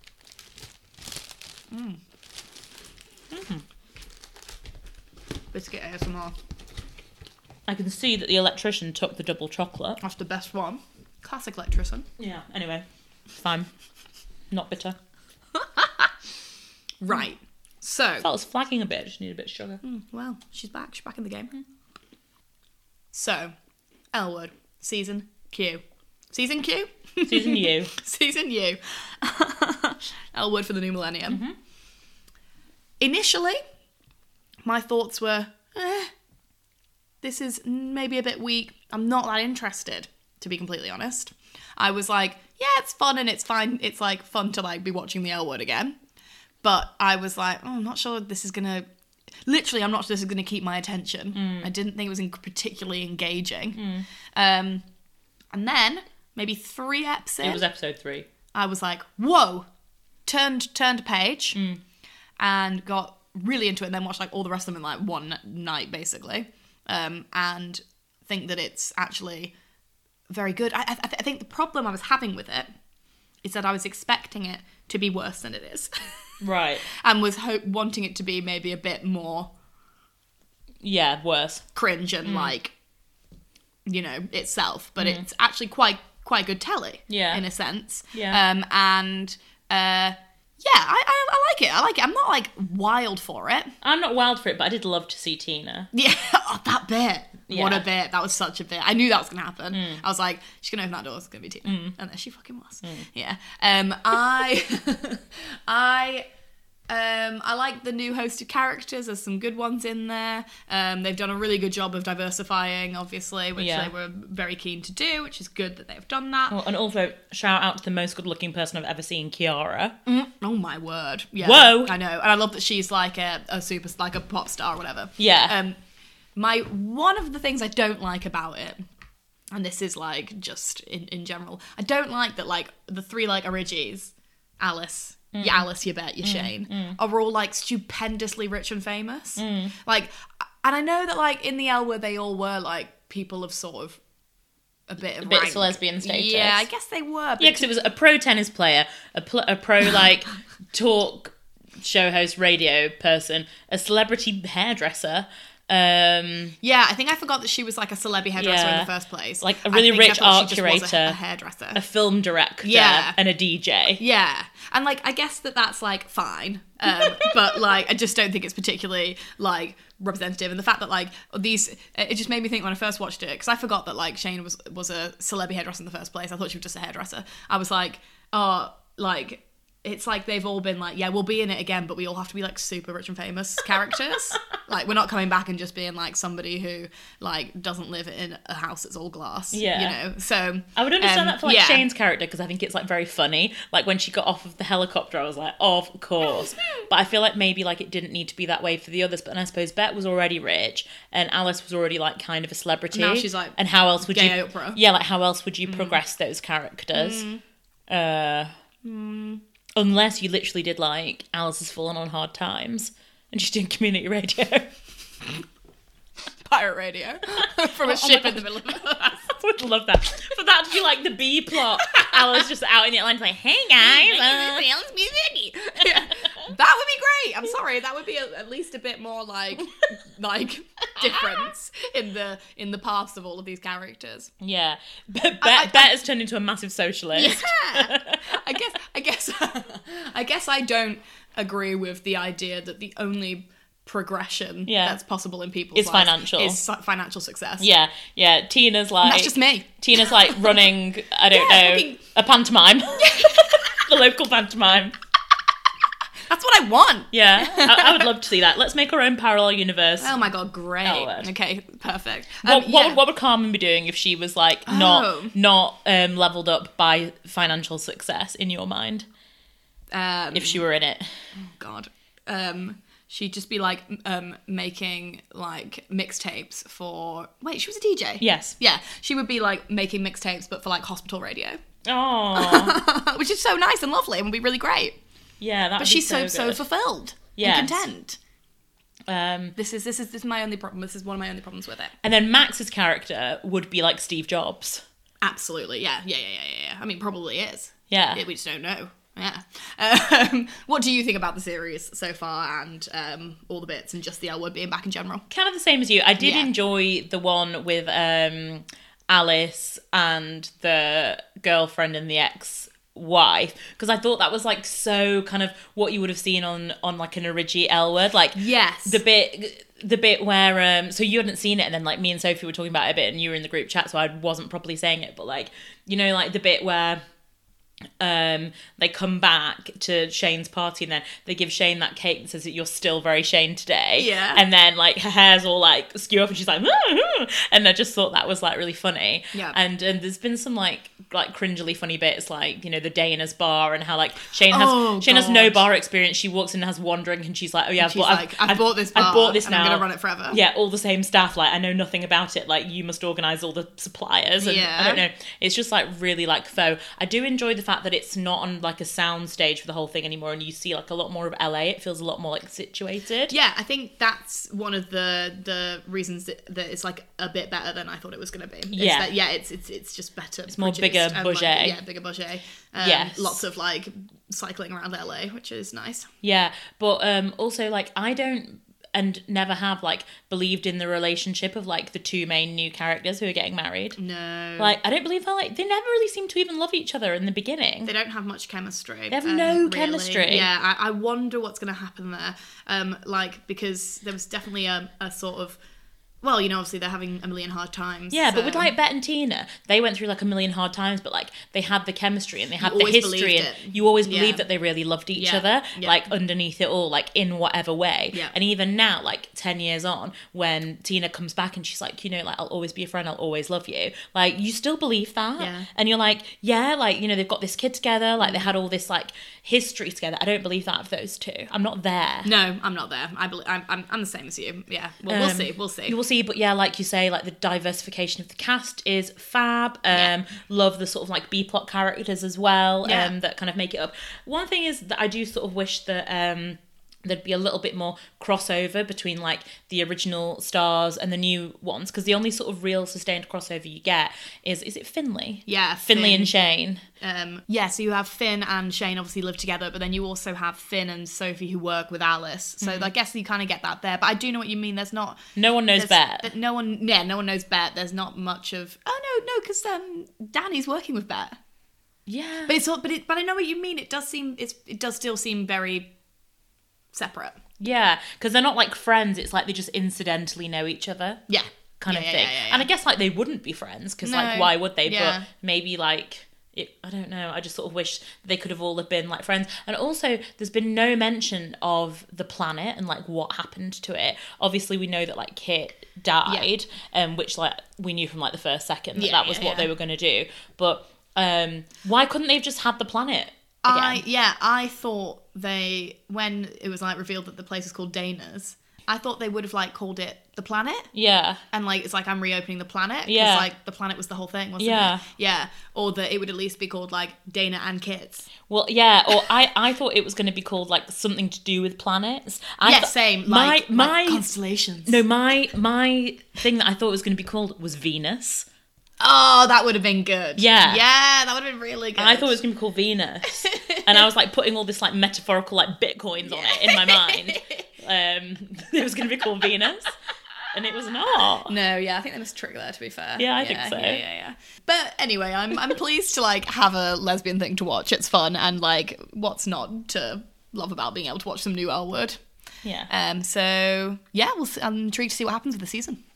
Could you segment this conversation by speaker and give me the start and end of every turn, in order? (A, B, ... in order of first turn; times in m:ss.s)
0:01.7-0:02.0 A
0:03.3-0:03.6 B
0:05.5-0:06.3 A
0:07.7-0:10.0 B
0:10.0-0:12.1 A
0:12.2-0:12.8 B
0:13.4-0:13.7 B
0:14.5-0:15.0 B
0:15.5-0:16.1 A
0:17.0-0:18.3 A
0:18.2-0:19.8 B
0:19.8-0:21.5 A
0:23.1-0:23.5 A
0:24.1-0:31.4 A
0:27.2-0:27.9 B
0:31.3-0:31.6 B
0:33.0-0:33.6 A
0:34.6-0:36.1 A
0:37.2-0:46.0 A
0:46.6-0:48.9 A
0:49.4-0:53.8 A
0:51.3-0:51.7 B
0:53.7-0:54.0 B
0:54.3-0:54.8 A
0:55.5-0:57.6 A
0:57.4-0:58.3 B
0:58.5-0:59.7 A
1:00.2-1:01.6 A
1:01.5-1:01.8 B
1:02.4-1:09.5 A
1:10.3-1:12.7 A
1:13.4-1:16.2 A
1:16.4-1:16.9 B
1:16.9-1:19.5 A
1:20.8-1:21.6 B
1:21.7-1:22.7 A
1:22.2-1:22.5 B
1:23.9-1:33.7 A
1:27.1-1:27.4 B
1:28.1-1:28.4 B
1:33.8-1:35.9 B
1:35.9-1:46.3 A
1:37.5-1:37.9 B
1:39.7-1:40.0 B
1:41.6-1:42.0 B
1:46.9-1:56.6 A
1:53.6-1:53.9 B
1:56.5-2:00.0 B
2:00.0-2:05.8 A
2:01.4-2:01.9 B
2:05.2-2:05.6 B
2:06.4-2:08.9 A
2:09.5-2:24.0 A
2:15.3-2:15.7 B
2:16.2-2:17.0 B
2:19.4-2:19.7 B
2:24.9-2:27.7 A
2:25.2-2:26.6 B
2:27.4-2:36.6 B
2:36.6-2:41.8 A
2:38.4-2:41.2 B
2:41.7-2:44.0 B
2:42.6-2:43.2 A
2:44.0-3:11.8 A
2:47.0-2:47.3 B
3:09.5-3:10.0 B
3:10.7-3:27.2 B
3:16.2-3:16.6 A
3:22.9-3:24.8 A
3:25.6-3:26.0 A
3:26.9-3:27.4 A
3:27.9-3:28.5 B
3:28.8-3:29.4 A
3:29.8-3:34.7 B
3:36.4-3:39.4 A
3:37.4-3:44.7 B
3:41.8-3:42.4 A
3:43.8-3:54.3 A
3:45.9-3:46.5 B
3:51.0-3:51.4 B
3:54.4-3:58.4 B
3:55.4-3:55.9 A
3:57.1-4:07.7 A
4:04.6-4:05.0 B
4:05.7-4:06.6 B
4:07.6-4:14.9 B
4:09.0-4:10.6 A
4:11.3-4:12.0 A
4:13.0-4:13.7 A
4:16.3-4:18.1 A
4:17.1-4:20.2 B
4:20.0-4:23.0 A
4:20.8-4:21.3 B
4:22.4-4:29.1 B
4:24.6-4:25.3 A
4:29.9-4:30.6 A
4:30.3-4:31.1 B
4:31.4-4:41.6 A
4:38.2-4:38.6 B
4:41.9-4:42.8 B
4:42.3-4:45.0 A
4:45.4-4:46.6 B
4:45.8-4:48.2 A
4:47.4-4:47.9 B
4:49.1-4:49.6 B
4:49.6-4:51.9 A
4:52.0-4:54.8 B
4:55.2-5:05.2 A
4:57.9-4:58.2 B
5:05.3-5:27.0 B
5:06.2-5:06.5 A
5:18.4-5:19.0 A
5:28.0-6:03.3 B
5:34.0-5:34.4 A
5:44.5-5:45.6 A
5:47.8-5:50.4 A
5:54.4-5:55.0 A
6:03.3-6:16.1 A
6:08.7-6:09.1 B
6:10.5-6:11.8 B
6:12.8-6:13.4 B
6:16.2-6:24.0 B
6:24.0-6:24.8 A
6:24.6-6:27.9 B
6:27.8-6:35.6 A
6:29.1-6:30.5 B
6:36.2-6:38.7 A
6:38.1-7:02.3 B
6:42.6-6:44.4 A
6:45.1-6:46.1 A
6:55.4-6:55.7 A
6:58.2-6:58.5 A
7:02.2-7:06.0 A
7:05.1-7:26.8 B
7:12.8-7:13.1 A
7:25.5-7:26.3 A
7:27.0-7:35.2 A
7:32.6-7:32.9 B
7:35.4-7:36.3 B
7:35.7-7:41.4 A
7:42.1-7:42.6 B
7:42.5-7:45.9 A
7:46.9-7:47.4 A
7:47.6-7:51.2 B
7:51.3-7:52.7 A
7:51.8-8:14.0 B
7:54.0-7:55.3 A
8:09.0-8:09.7 A
8:13.6-8:20.9 A
8:20.9-8:21.4 B
8:21.5-8:28.3 A
8:23.0-8:23.5 B
8:24.6-8:25.0 B
8:28.5-8:34.2 B
8:32.6-8:35.0 A
8:34.9-8:38.4 B
8:39.0-8:42.4 A
8:40.4-8:40.8 B
8:42.0-8:50.0 B
8:43.3-8:44.1 A
8:46.2-8:47.7 A
8:50.5-8:51.5 B
8:51.5-9:02.2 A
8:53.2-8:54.0 B
9:02.6-9:02.9 B
9:02.9-9:06.0 A